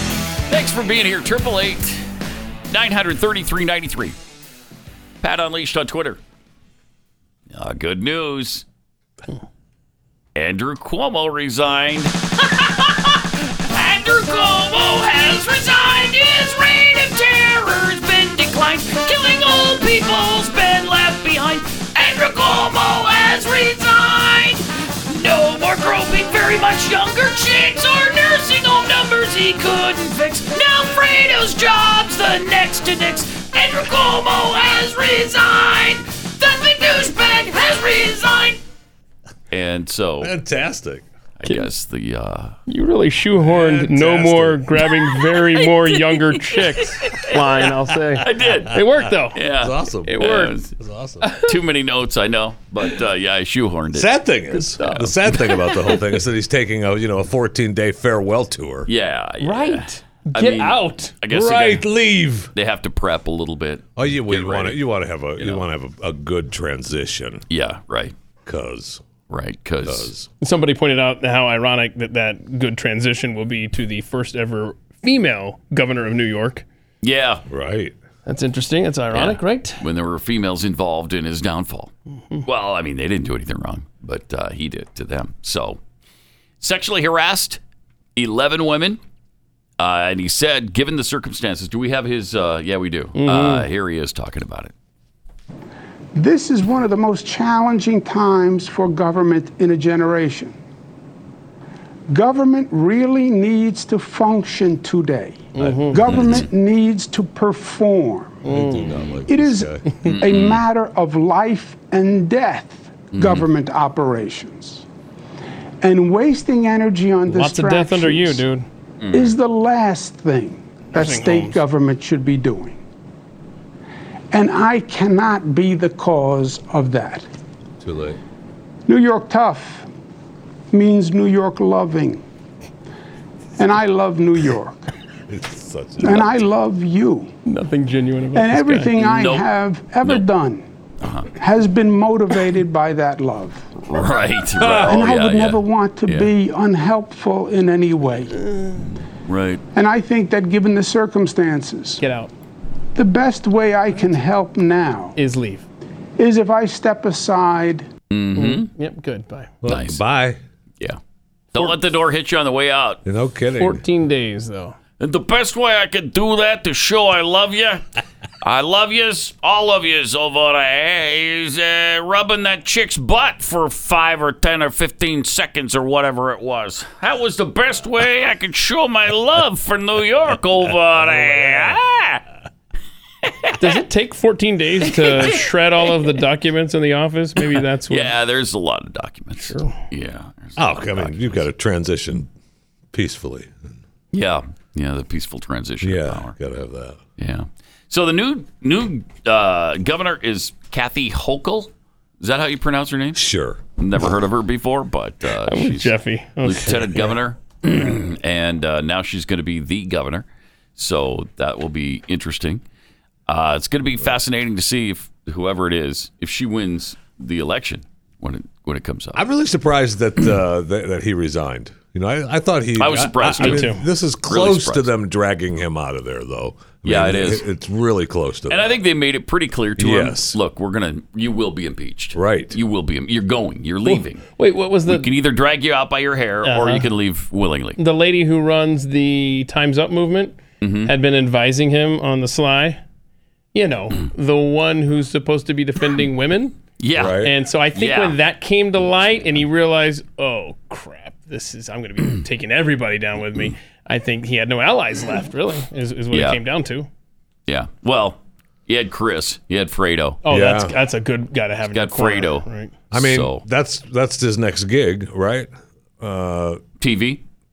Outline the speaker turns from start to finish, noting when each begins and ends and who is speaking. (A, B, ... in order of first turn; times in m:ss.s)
0:00.5-0:02.0 A
0:02.7-0:04.2 A
0:05.2-0:06.2 A
0:07.5-0:08.6 A
0:10.4-0:38.6 A
0:39.5-0:40.3 A
0:40.2-0:41.0 B
0:41.4-0:42.6 A
0:42.7-0:49.4 C
0:43.6-0:47.4 A
0:48.2-0:50.7 A
0:49.6-0:51.3 B
0:50.1-0:50.6 C
0:51.2-0:51.5 C
0:51.4-0:56.0 A
0:53.9-0:58.9 B
0:58.9-1:01.9 A
0:59.4-1:01.2 C
1:01.3-1:02.5 B
1:02.6-1:04.8 A
1:04.0-1:07.4 B
1:05.4-1:05.6 A
1:07.5-1:08.2 A
1:08.5-1:09.0 B
1:09.3-1:10.1 A
1:09.8-1:10.3 B
1:10.4-1:16.6 C
1:17.0-1:17.4 A
1:17.5-1:18.0 B
1:18.3-1:19.8 C
1:19.1-1:21.9 A
1:22.5-1:25.8 A
1:26.6-1:27.6 A
1:28.2-1:29.0 A
1:29.8-1:34.7 A
1:33.2-1:33.7 C
1:36.1-1:40.6 D
1:42.1-1:48.5 D
1:45.5-1:46.0 C
1:45.6-1:46.4 B
1:46.1-1:46.5 A
1:48.4-1:49.0 C
1:48.5-1:50.0 B
1:49.3-1:54.8 D
1:50.1-1:50.6 A
1:53.1-1:53.5 A
1:55.8-1:58.4 D
1:57.3-1:58.7 C
1:59.0-1:59.4 A
1:59.1-2:02.8 D
2:00.9-2:01.6 C
2:04.3-2:07.3 D
2:07.8-2:08.2 B
2:08.9-2:09.9 D
2:10.7-2:12.2 D
2:13.6-2:14.9 D
2:15.3-2:16.4 B
2:16.0-2:17.3 D
2:17.5-2:19.0 C
2:18.3-2:20.6 D
2:19.0-2:19.5 A
2:21.0-2:21.3 A
2:21.4-2:23.7 D
2:23.9-2:26.3 A
2:24.6-2:25.0 B
2:24.8-2:28.5 D
2:28.5-2:28.8 C
2:29.2-2:29.6 A
2:29.7-2:32.0 D
2:32.0-2:32.3 C
2:33.0-2:35.2 D
2:35.2-2:35.7 C
2:36.2-2:37.9 D
2:38.1-2:38.7 A
2:38.4-2:39.5 C
2:39.6-2:40.4 B
2:39.6-2:40.0 A
2:41.5-2:43.0 A
2:43.0-2:43.8 B
2:43.6-2:44.8 C
2:45.0-2:47.8 A
2:48.4-3:02.2 A
3:03.3-3:03.6 A
3:03.6-3:08.1 C
3:04.9-3:05.5 A
3:07.9-3:11.5 A
3:09.4-3:09.8 C
3:10.6-3:12.3 B
3:12.9-3:13.5 B
3:14.1-3:16.3 A
3:15.8-3:17.0 B
3:17.2-3:23.2 A
3:23.2-3:23.6 B
3:23.8-3:32.6 A
3:25.5-3:27.1 C
3:33.3-3:39.2 A
3:39.2-3:48.7 B
3:42.8-3:44.9 A
3:43.4-3:43.8 C
3:46.8-3:47.4 A
3:48.5-3:54.2 A
3:49.8-3:50.4 B
3:52.2-3:52.6 B
3:53.9-3:55.1 C
3:54.9-3:57.8 A
3:56.4-3:56.9 C
3:57.8-4:02.8 C
4:00.6-4:00.9 A
4:03.5-4:06.6 C
4:06.8-4:07.2 A
4:07.0-4:07.3 B
4:07.2-4:16.9 C
4:07.8-4:08.2 A
4:16.1-4:16.4 A
4:17.5-4:20.2 A
4:20.2-4:22.7 C
4:20.3-4:20.8 B
4:21.7-4:23.4 A
4:22.9-4:25.5 B
4:26.0-4:26.6 B
4:26.8-4:27.2 A